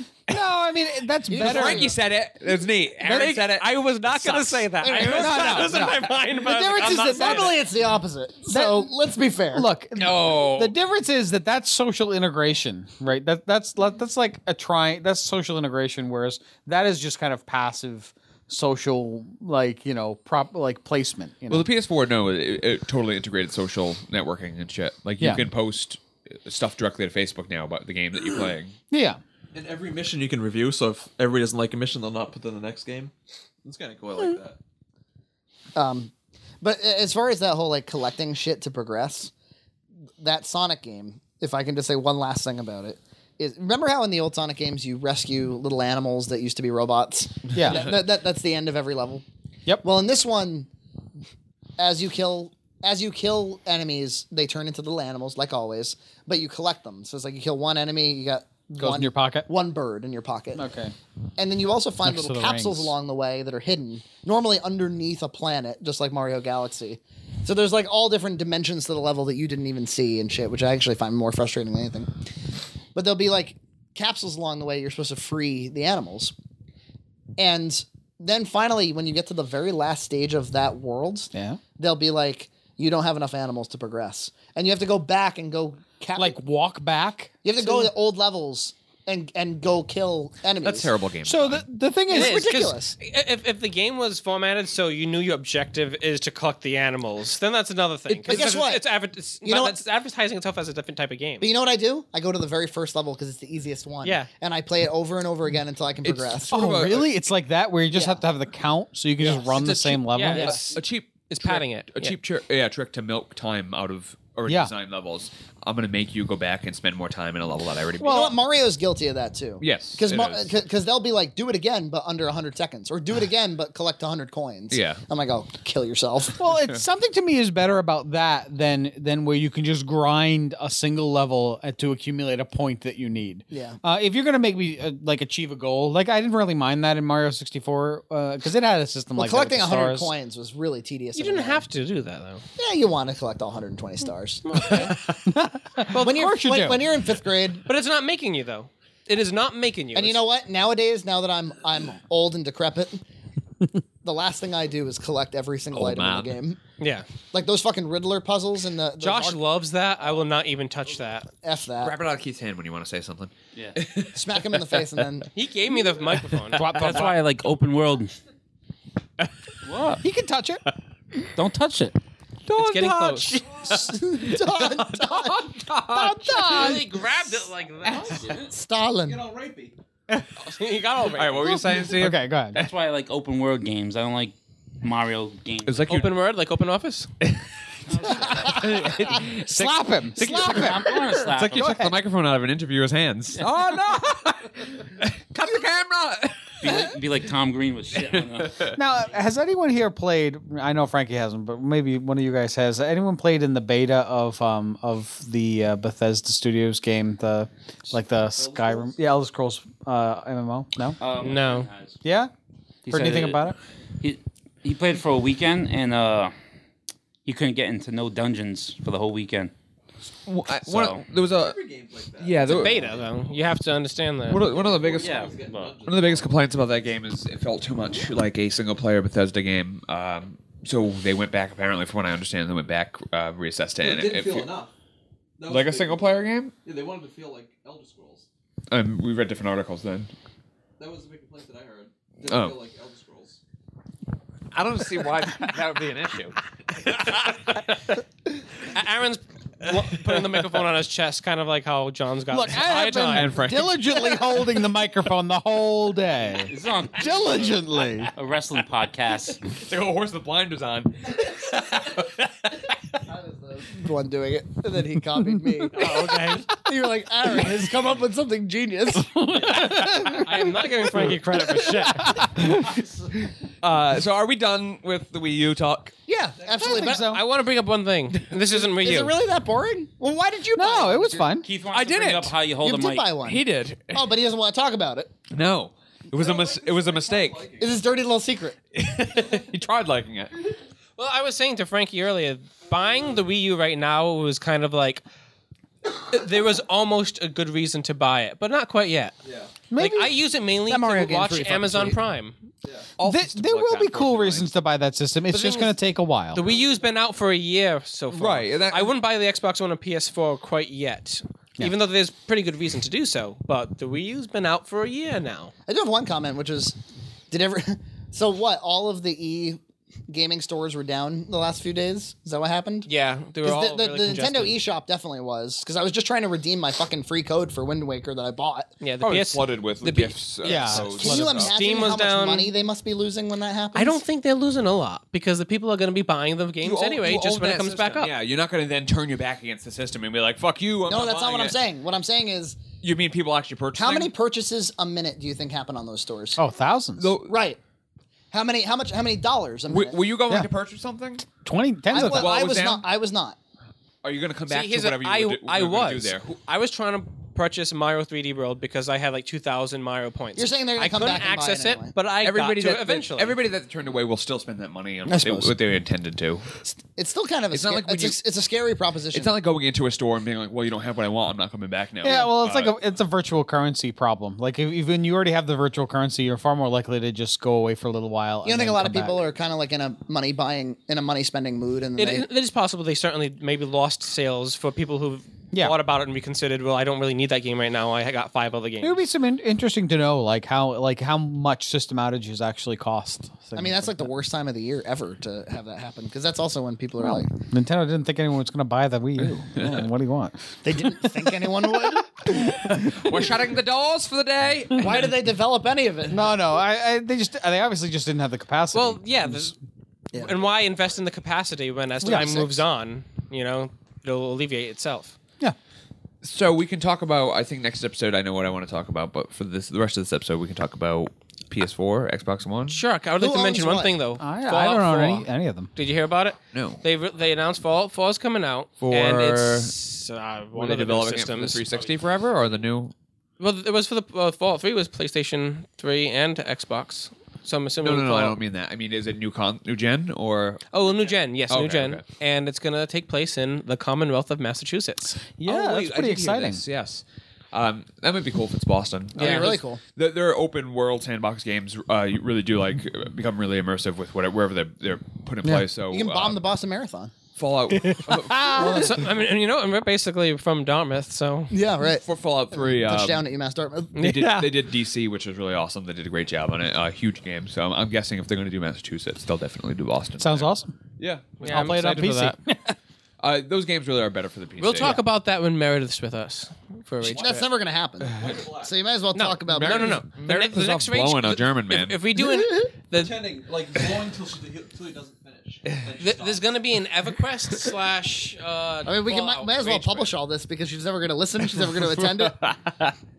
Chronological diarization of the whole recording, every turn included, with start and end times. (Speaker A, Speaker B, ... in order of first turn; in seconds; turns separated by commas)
Speaker A: 0.3-1.9, Speaker B: 1.3-1.9, Speaker C: 1.3-5.2, Speaker D: 3.0-7.7, Speaker B: 4.8-9.7, Speaker A: 5.0-6.0, Speaker A: 8.5-8.9, Speaker A: 9.5-21.7, Speaker C: 9.9-10.7, Speaker C: 21.5-28.8, Speaker A: 28.9-29.2, Speaker E: 29.5-33.1, Speaker E: 33.6-34.6, Speaker B: 35.8-39.3, Speaker B: 40.2-49.2, Speaker A: 47.5-47.9, Speaker B: 49.8-50.7, Speaker B: 51.8-60.7, Speaker A: 58.8-59.5, Speaker A: 60.5-60.9, Speaker B: 61.4-72.1, Speaker A: 62.0-62.9, Speaker B: 72.9-76.3, Speaker B: 77.4-86.4, Speaker A: 81.3-81.6, Speaker A: 86.2-87.9, Speaker B: 87.4-90.9, Speaker C: 90.6-91.6, Speaker A: 91.2-92.4, Speaker B: 92.1-93.0, Speaker D: 92.1-101.5, Speaker C: 98.1-98.5, Speaker B: 98.3-98.9, Speaker B: 99.4-99.8, Speaker B: 101.4-106.6, Speaker D: 104.0-104.3, Speaker C: 106.0-107.1, Speaker A: 106.5-110.6, Speaker B: 107.9-108.2, Speaker D: 109.2-112.2, Speaker C: 110.3-118.3, Speaker A: 118.0-118.3, Speaker B: 118.0-126.4, Speaker C: 119.6-120.5, Speaker C: 124.7-125.0, Speaker A: 126.4-140.1, Speaker B: 133.5-133.8, Speaker B: 139.2-141.6, Speaker D: 141.1-142.4, Speaker B: 142.6-144.9, Speaker D: 144.4-145.0, Speaker A: 145.2-146.8, Speaker B: 145.9-147.6, Speaker D: 147.7-150.2, Speaker B: 149.9-153.0, Speaker B: 154.0-156.6, Speaker C: 155.7-156.3, Speaker D: 156.8-157.1, Speaker B: 157.3-159.4, Speaker D: 159.0-161.3, Speaker B: 161.4-161.9, Speaker C: 161.8-165.0, Speaker B: 164.1-165.3, Speaker D: 165.3-167.1, Speaker A: 166.6-167.2, Speaker F: 166.6-168.2, Speaker F: 169.6-170.0, Speaker A: 170.0-170.6, Speaker F: 171.3-172.0, Speaker C: 172.4-176.8, Speaker D: 172.6-173.4, Speaker B: 173.6-176.8, Speaker D: 176.4-178.4, Speaker C: 177.9-178.2, Speaker B: 178.3-179.2, Speaker E: 179.0-179.7, Speaker D: 180.4-181.7, Speaker C: 181.0-182.7, Speaker A: 182.0-182.6, Speaker F: 182.5-185.9, Speaker C: 185.6-186.1, Speaker D: 185.9-187.1, Speaker F: 187.9-188.8, Speaker C: 188.0-197.0, Speaker B: 188.3-188.7, Speaker A: 189.5-191.0, Speaker F: 190.2-191.9, Speaker A: 191.5-191.9, Speaker A: 193.4-194.3, Speaker F: 196.6-198.7, Speaker C: 197.9-198.8, Speaker A: 198.7-211.0, Speaker E: 208.3-209.0, Speaker F: 211.0-212.0, Speaker D: 211.2-211.7, Speaker A: 212.0-212.3, Speaker F: 212.8-216.3, Speaker A: 212.9-213.6, Speaker F: 217.2-219.5, Speaker C: 220.2-221.6, Speaker F: 220.6-221.0, Speaker E: 221.2-223.4, Speaker C: 222.2-222.9, Speaker D: 222.4-224.4, Speaker C: 224.3-225.3, Speaker E: 224.3-226.7, Speaker F: 224.9-225.8, Speaker C: 225.8-234.5, Speaker E: 233.8-234.7, Speaker E: 235.4-238.3, Speaker C: 235.5-236.5, Speaker C: 238.7-240.1, Speaker E: 240.8-243.4, Speaker C: 242.3-242.6, Speaker C: 244.5-248.0, Speaker D: 248.7-253.4, Speaker C: 249.7-250.5, Speaker A: 252.3-258.1, Speaker C: 253.0-254.4, Speaker F: 256.3-259.4, Speaker C: 259.5-262.8, Speaker B: 263.1-270.2, Speaker D: 265.7-266.5, Speaker C: 269.4-270.1, Speaker A: 269.5-270.2, Speaker D: 269.6-272.4, Speaker A: 271.9-272.5, Speaker C: 272.4-275.9, Speaker B: 276.1-277.1, Speaker A: 276.6-277.2, Speaker D: 276.7-279.1, Speaker B: 278.5-281.4, Speaker A: 280.5-281.5, Speaker F: 281.4-283.1, Speaker C: 281.7-282.4, Speaker B: 282.6-285.1, Speaker C: 283.2-284.1, Speaker C: 285.3-287.5, Speaker E: 286.1-287.8, Speaker B: 287.6-288.6, Speaker C: 288.7-290.3, Speaker D: 291.0-295.0, Speaker D: 296.1-299.1, Speaker E: 299.2-299.5, Speaker A: 299.7-300.2, Speaker D: 299.7-302.4, Speaker B: 300.7-302.0, Speaker E: 302.6-302.9, Speaker C: 303.0-304.5, Speaker A: 303.0-306.4, Speaker D: 305.3-305.7, Speaker D: 306.3-315.5, Speaker E: 306.4-306.8, Speaker C: 308.1-308.9, Speaker B: 315.7-316.8, Speaker B: 317.3-322.9, Speaker D: 322.9-324.6, Speaker B: 323.4-328.7, Speaker D: 328.8-330.9, Speaker C: 329.0-331.5, Speaker A: 330.4-331.5, Speaker B: 331.0-334.0, Speaker D: 331.4-332.5, Speaker D: 333.7-338.1, Speaker C: 336.6-341.6, Speaker B: 340.9-342.6, Speaker C: 342.8-344.1, Speaker B: 343.7-346.4, Speaker A: 346.4-347.1, Speaker C: 347.0-347.3, Speaker B: 347.3-347.6, Speaker B: 348.3-350.0, Speaker C: 349.7-351.2, Speaker A: 351.4-352.3, Speaker B: 351.9-353.4, Speaker C: 351.9-352.8, Speaker C: 354.0-356.4, Speaker D: 354.5-363.4, Speaker B: 360.4-361.9, Speaker C: 362.2-366.5, Speaker B: 365.1-365.5, Speaker B: 366.6-369.3, Speaker C: 367.5-368.2, Speaker C: 369.1-372.8, Speaker A: 372.0-379.2, Speaker B: 378.4-382.3, Speaker D: 382.0-389.0, Speaker A: 388.8-394.1, Speaker B: 393.6-397.3, Speaker A: 397.0-403.2, Speaker C: 399.2-399.9, Speaker B: 400.6-402.2, Speaker C: 402.4-405.1, Speaker B: 404.8-406.4, Speaker A: 406.1-409.4, Speaker D: 408.7-409.6, Speaker D: 410.1-415.2, Speaker A: 412.0-412.4, Speaker B: 412.0-412.6, Speaker C: 416.2-422.8, Speaker D: 422.7-431.8, Speaker B: 423.2-423.9, Speaker A: 424.2-425.7, Speaker C: 426.5-426.8, Speaker C: 428.8-429.7, Speaker C: 430.5-432.9, Speaker D: 433.4-438.4, Speaker C: 437.8-440.7, Speaker D: 440.7-445.2, Speaker C: 441.5-442.0, Speaker A: 445.4-446.6, Speaker C: 445.4-456.4, Speaker D: 449.1-449.6, Speaker B: 449.1-449.8, Speaker B: 455.8-457.1, Speaker C: 457.4-458.9, Speaker D: 457.8-461.5, Speaker B: 458.5-459.1, Speaker B: 461.5-464.0, Speaker C: 461.9-463.2, Speaker D: 463.9-464.5, Speaker C: 463.9-472.0, Speaker A: 470.2-470.7, Speaker D: 471.4-472.3, Speaker A: 471.4-472.7, Speaker C: 473.2-475.0, Speaker D: 474.6-477.4, Speaker E: 477.0-477.4, Speaker B: 477.0-480.0, Speaker E: 478.1-478.7, Speaker D: 479.1-483.2, Speaker C: 479.5-482.0, Speaker B: 482.2-482.7, Speaker E: 482.9-486.5, Speaker D: 486.0-490.1, Speaker B: 488.8-492.4, Speaker C: 491.7-492.9